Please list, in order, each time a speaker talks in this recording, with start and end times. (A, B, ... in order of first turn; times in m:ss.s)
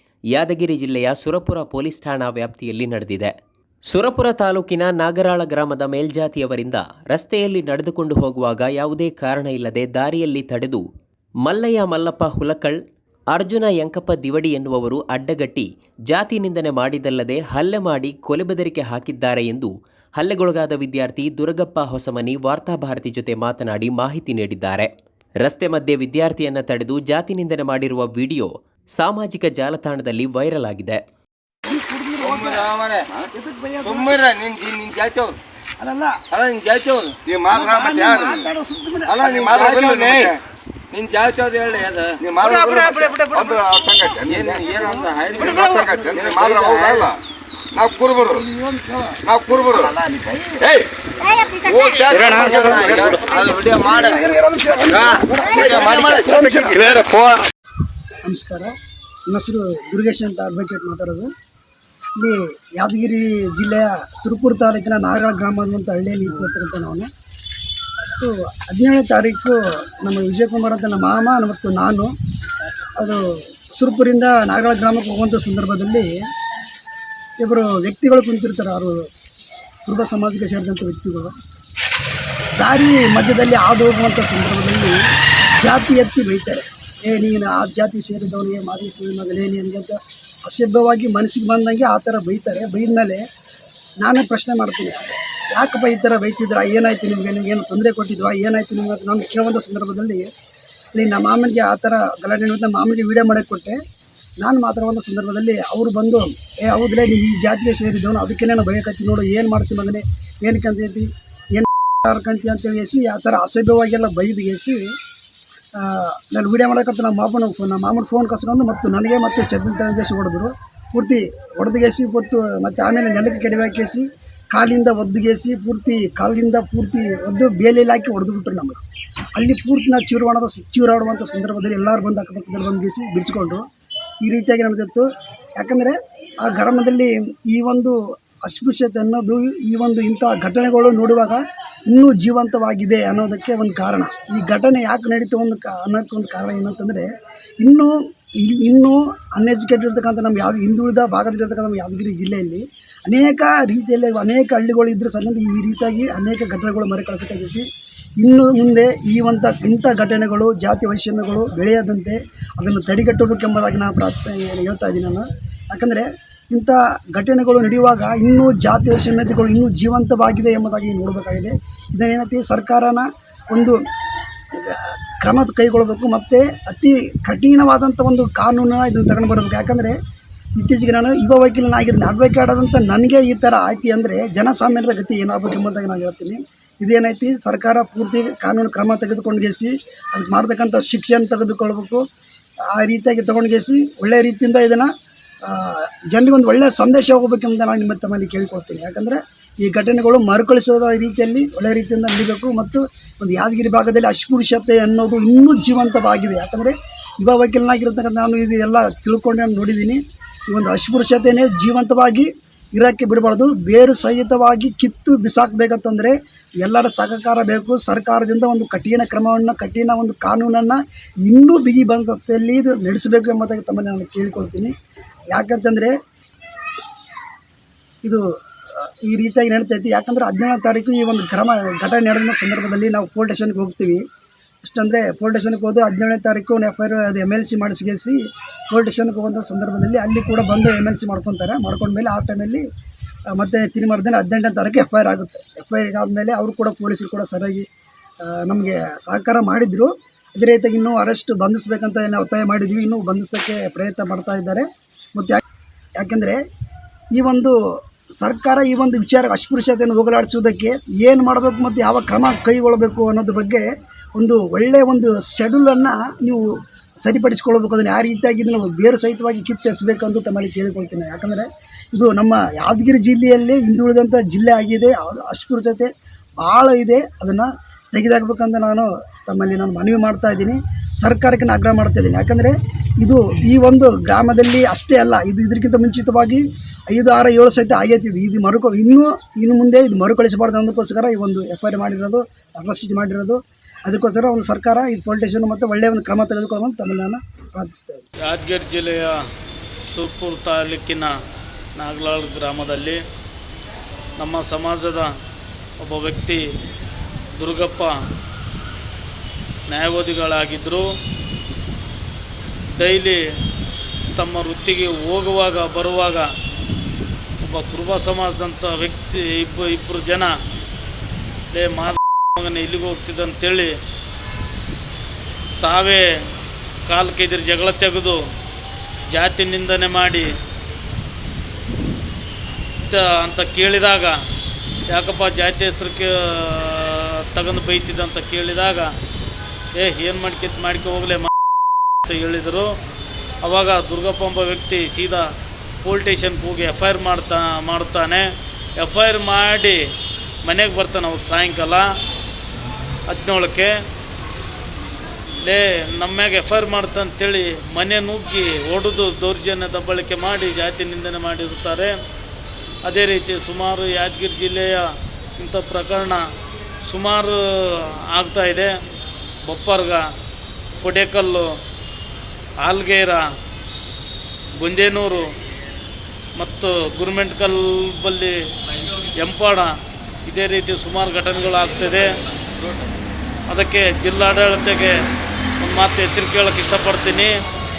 0:00.3-0:03.3 A
0:03.9-0:10.8 A
0:11.4-0:12.8 A
0:13.3-0:24.9 A
0:25.4-0:31.0 A
0:31.7-0:32.5 B
0:32.2-0:33.1 C
0:33.4-0:34.1 B
0:33.8-0:35.3 C
0:35.9-0:36.2 B
0:36.3-0:38.5 C
0:37.5-0:39.4 B
0:37.6-0:38.2 D
0:39.0-0:40.4 C
0:39.4-0:40.3 D
0:40.9-0:43.2 C
0:42.2-0:47.2 D
0:43.0-0:43.4 E
0:44.3-0:47.1 C
0:47.7-0:48.4 D
0:48.4-0:49.2 B
0:49.2-0:49.9 D
0:49.9-0:50.6 B
0:51.5-0:54.3 C
0:52.2-0:53.2 D
0:53.8-0:57.1 B
0:54.9-0:56.4 C
0:56.9-0:57.4 D
0:58.2-0:58.7 B
0:59.3-1:01.3 B
1:02.2-1:07.1 B
1:08.1-1:12.1 B
1:13.7-1:16.1 B
1:17.4-1:19.0 B
1:19.9-1:21.3 B
1:22.6-1:25.0 B
1:25.6-1:33.2 B
1:34.0-1:40.3 B
1:40.9-1:43.8 B
1:44.4-1:54.8 B
1:55.8-2:08.8 B
2:09.4-2:13.6 B
2:14.2-2:27.1 B
2:27.6-2:37.6 B
2:38.2-2:53.8 B
2:54.5-3:00.0 B
3:00.6-3:12.0 B
3:12.7-3:14.9 B
3:15.4-3:44.7 B
3:45.3-3:45.9 B
3:48.0-3:54.0 B
3:54.6-3:58.2 B
3:58.7-4:02.6 B
4:03.3-4:07.6 B
4:08.2-4:15.4 B
4:16.0-4:16.4 B
4:17.1-4:17.5 B
4:18.2-4:26.5 B
4:27.0-4:35.9 B
4:36.4-4:58.0 B
4:58.3-4:59.2 E
4:59.9-5:01.2 E
5:01.8-5:03.0 E
5:04.2-5:05.1 E
5:05.8-5:06.4 E
5:07.4-5:08.0 E
5:09.7-5:10.9 E
5:12.8-5:13.2 E
5:14.1-5:16.3 E
5:17.4-5:20.3 E
5:21.5-5:23.7 E
5:25.6-5:26.1 E
5:26.9-5:28.2 E
5:29.1-5:30.3 E
5:32.8-5:34.2 E
5:34.9-5:38.9 E
5:39.7-5:41.3 E
5:42.0-5:42.7 E
5:43.4-5:45.3 E
5:45.8-5:49.8 E
5:50.4-5:51.9 E
5:53.1-5:53.7 E
5:55.4-6:02.0 E
6:02.8-6:06.2 E
6:06.8-6:08.7 E
6:09.4-6:10.0 E
6:10.8-6:11.5 E
6:12.6-6:13.2 E
6:14.6-6:15.2 E
6:16.4-6:18.4 E
6:19.1-6:19.7 E
6:20.2-6:22.2 E
6:23.5-6:25.0 E
6:25.6-6:27.3 E